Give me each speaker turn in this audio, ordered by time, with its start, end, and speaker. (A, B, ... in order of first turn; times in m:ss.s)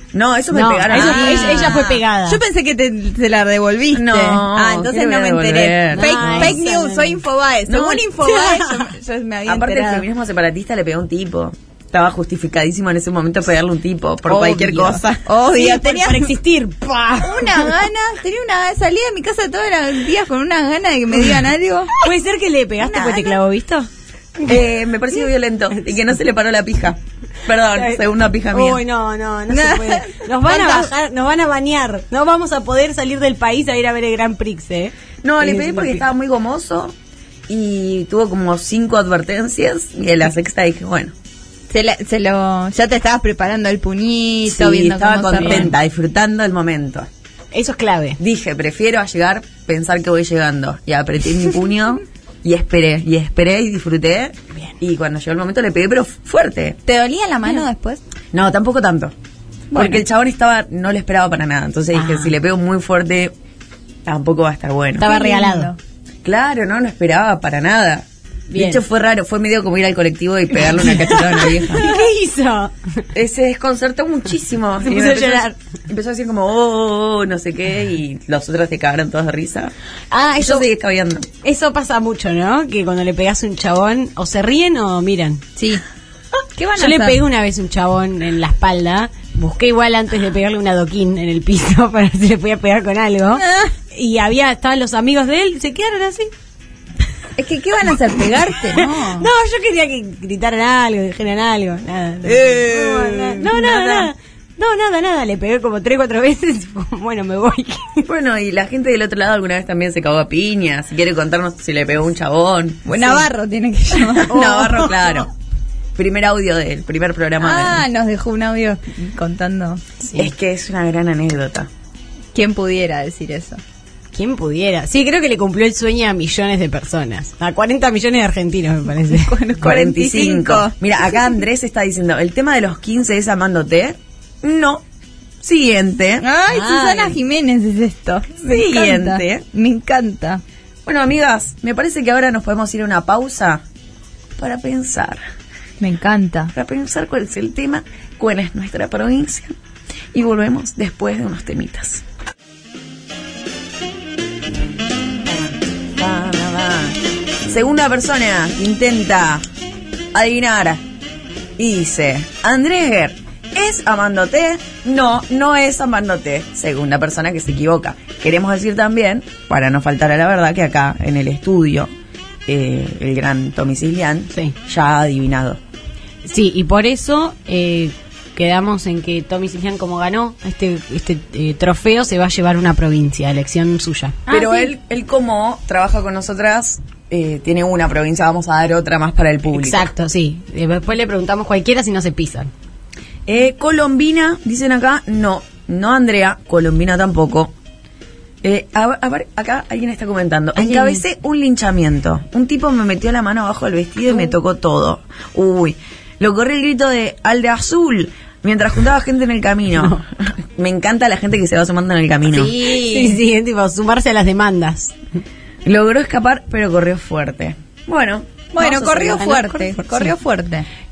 0:00.1-0:01.9 A
0:00.5-0:02.4 B
0:00.9-0:10.0 C
0:03.9-0:06.6 A
0:05.9-0:07.2 B
0:07.7-0:08.1 A
0:08.2-0:08.8 B
0:09.4-0:15.0 A
0:14.3-0:16.3 C
0:15.4-0:17.7 B
0:17.2-0:22.0 C
0:22.0-0:23.9 B
0:22.8-0:23.4 C
0:24.4-0:28.8 A
0:27.7-0:36.0 B
0:29.5-0:30.9 C
0:35.2-0:36.9 A
0:37.5-0:41.1 A
0:41.7-0:45.7 C
0:44.4-0:47.1 A
0:45.4-0:45.7 B
0:47.5-0:48.2 B
0:48.2-0:56.8 A
0:56.8-0:58.0 C
0:58.3-0:59.1 A
0:59.7-1:00.0 C
0:59.7-1:03.3 A
1:01.9-1:02.3 B
1:04.0-1:05.1 A
1:05.0-1:05.7 B
1:05.0-1:05.8 C
1:06.2-1:11.9 A
1:08.5-1:08.8 B
1:10.6-1:13.0 B
1:13.1-1:19.7 A
1:14.8-1:15.5 B
1:20.1-1:20.7 B
1:20.4-1:21.3 A
1:21.4-1:25.4 B
1:25.6-1:25.8 C
1:26.6-1:27.2 C
1:26.8-1:36.3 B
1:33.3-1:33.7 C
1:37.4-1:39.3 C
1:38.8-1:48.1 B
1:42.3-1:43.1 C
1:42.4-1:44.1 A
1:48.0-1:53.2 A
1:52.9-1:54.9 C
1:54.1-1:55.3 A
1:54.3-1:54.9 B
1:55.9-1:57.8 A
1:57.4-1:59.8 C
2:00.0-2:00.3 B
2:00.1-2:01.7 A
2:02.3-2:03.6 C
2:04.1-2:09.3 B
2:09.1-2:11.3 C
2:09.6-2:14.8 A
2:15.4-2:16.2 A
2:16.2-2:20.4 C
2:16.5-2:17.2 B
2:18.4-2:19.4 A
2:20.8-2:23.6 A
2:24.4-2:25.2 A
2:25.8-2:26.5 C
2:26.5-2:29.5 A
2:30.1-2:32.0 A
2:35.2-2:39.4 A
2:40.1-2:40.8 A
2:41.6-2:51.9 A
2:52.4-2:55.6 A
2:56.2-3:04.7 B
3:04.3-3:04.6 C
3:04.3-3:09.9 A
3:09.5-3:12.5 B
3:13.3-3:17.5 A
3:18.4-3:32.6 A
3:20.6-3:21.0 B
3:32.3-3:33.2 C
3:32.7-3:34.9 B
3:35.6-3:39.2 A
3:38.5-3:40.7 C
3:38.6-3:40.1 B